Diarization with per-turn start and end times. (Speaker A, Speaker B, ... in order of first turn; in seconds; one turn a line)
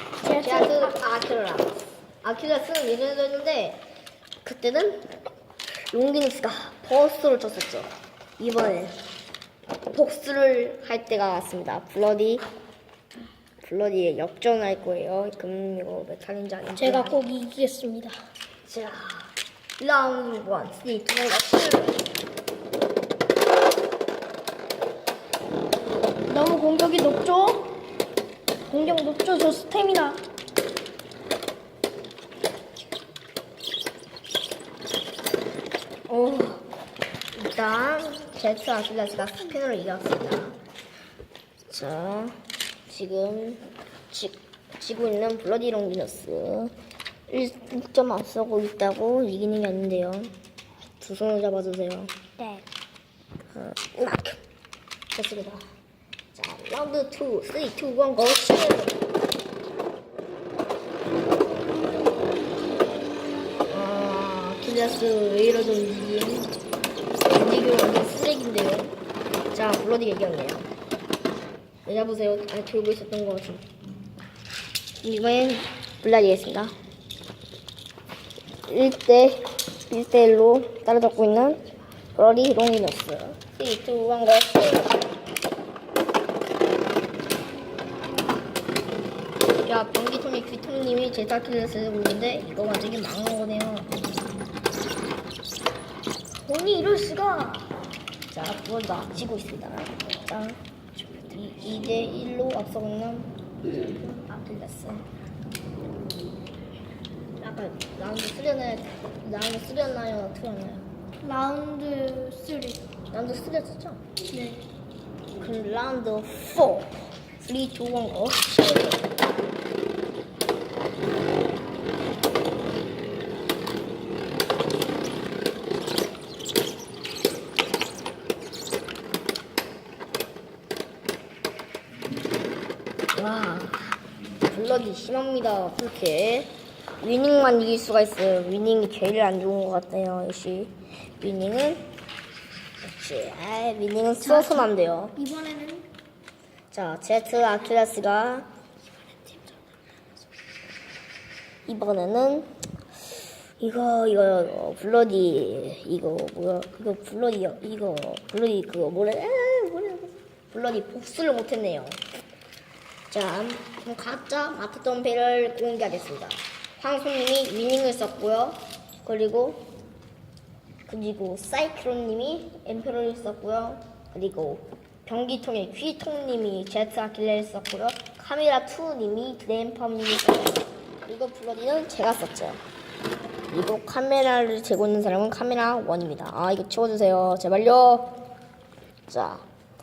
Speaker A: 0.2-0.9
Speaker B: 0.4-3.9
Speaker B: 4.4-5.1
Speaker B: 5.9-9.0
Speaker B: 9.9-12.5
Speaker B: 13.6-17.2
Speaker A: 16.8-18.2
Speaker B: 18.7-22.0
Speaker A: 26.3-27.8
Speaker A: 28.7-30.2
Speaker B: 36.1-36.6
Speaker B: 37.3-40.6
Speaker B: 41.7-42.4
Speaker B: 42.9-46.7
Speaker B: 47.3-50.3
Speaker B: 51.0-52.1
Speaker A: 52.4-52.6
Speaker B: 53.5-54.4
Speaker B: 55.1-55.6
Speaker B: 56.3-59.0
Speaker B: 63.7-66.5
Speaker B: 67.3-69.0
Speaker B: 69.5-70.7
Speaker B: 71.9-73.6
Speaker B: 75.0-76.7
Speaker B: 78.7-81.6
Speaker B: 82.1-85.0
Speaker B: 89.7-93.9
Speaker A: 96.4-97.7
Speaker B: 98.3-105.0
Speaker B: 107.4-110.8
Speaker A: 111.2-112.8
Speaker B: 113.1-114.0
Speaker A: 114.3-114.7
Speaker B: 115.4-119.1
Speaker B: 133.2-134.0
Speaker B: 134.5-141.8
Speaker B: 142.8-145.2
Speaker A: 144.2-145.9
Speaker B: 146.7-148.5
Speaker B: 151.7-152.5
Speaker B: 153.6-162.0
Speaker B: 163.1-169.7
Speaker B: 170.9-182.6
Speaker B: 183.5-188.1
Speaker B: 189.1-189.5